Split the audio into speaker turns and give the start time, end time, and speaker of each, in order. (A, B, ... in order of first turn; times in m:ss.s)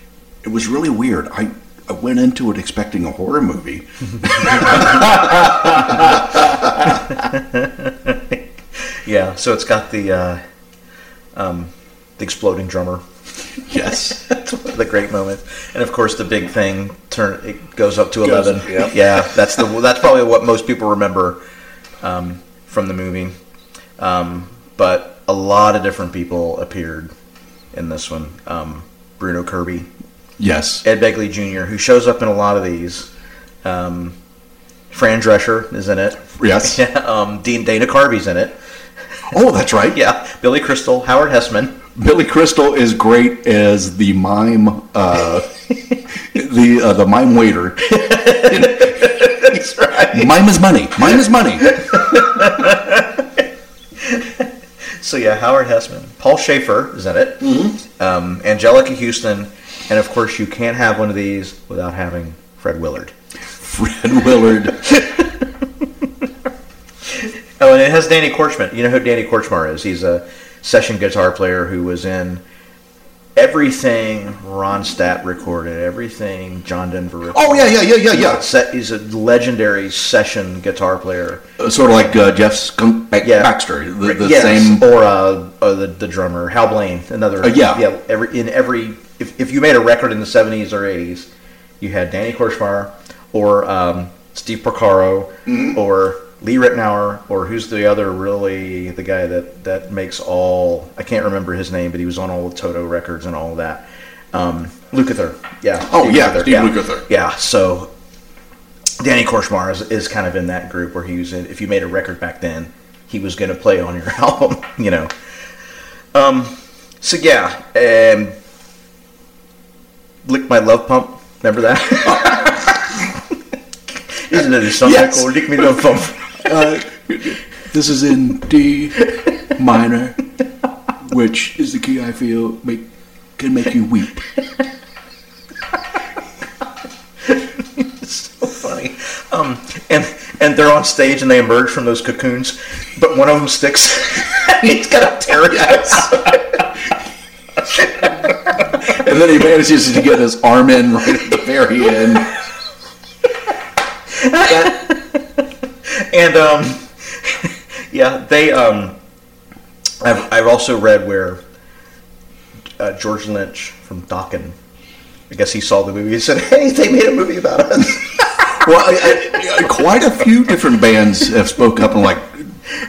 0:00.4-0:07.0 A
0:06.9-0:10.4 B
0:11.3-0:13.0 B
0:13.7-0:14.2 A
0:13.9-0:21.4 B
0:18.6-0:18.9 A
0:22.0-0:23.3 B
0:24.0-0:27.1 B
0:27.7-0:29.9 B
0:30.4-0:30.8 A
0:30.8-0:33.1 B
0:33.6-0:34.2 B
0:34.9-0:38.6 B
0:36.3-0:36.8 A
0:39.3-0:40.0 A
0:39.9-0:41.8 B
0:42.0-0:45.5 A
0:46.2-0:49.2 A
0:47.8-0:50.3 B
0:50.0-0:51.8 A
0:51.6-0:53.4 B
0:54.0-1:03.1 B
0:57.4-0:57.7 A
1:03.6-1:04.8 A
1:07.2-1:12.4 B
1:13.4-1:21.4 B
1:17.3-1:18.4 A
1:21.6-1:24.8 A
1:23.2-1:31.3 B
1:27.4-1:27.8 A
1:31.8-1:47.9 B
1:35.5-1:35.7 A
1:45.9-1:47.0 A
1:49.0-1:55.1 B
1:56.1-1:58.3 B
2:00.2-2:03.0 B
2:02.1-2:02.5 A
2:04.2-2:06.4 B
2:04.3-2:05.8 A
2:06.4-2:10.2 A
2:11.0-2:12.8 A
2:13.4-2:14.2 A
2:17.3-2:26.6 B
2:25.6-2:26.1 A
2:28.6-2:32.3 A
2:34.1-2:39.0 B
2:40.0-2:41.4 B
2:42.8-2:44.6 B
2:45.3-2:48.6 B
2:48.5-2:52.5 A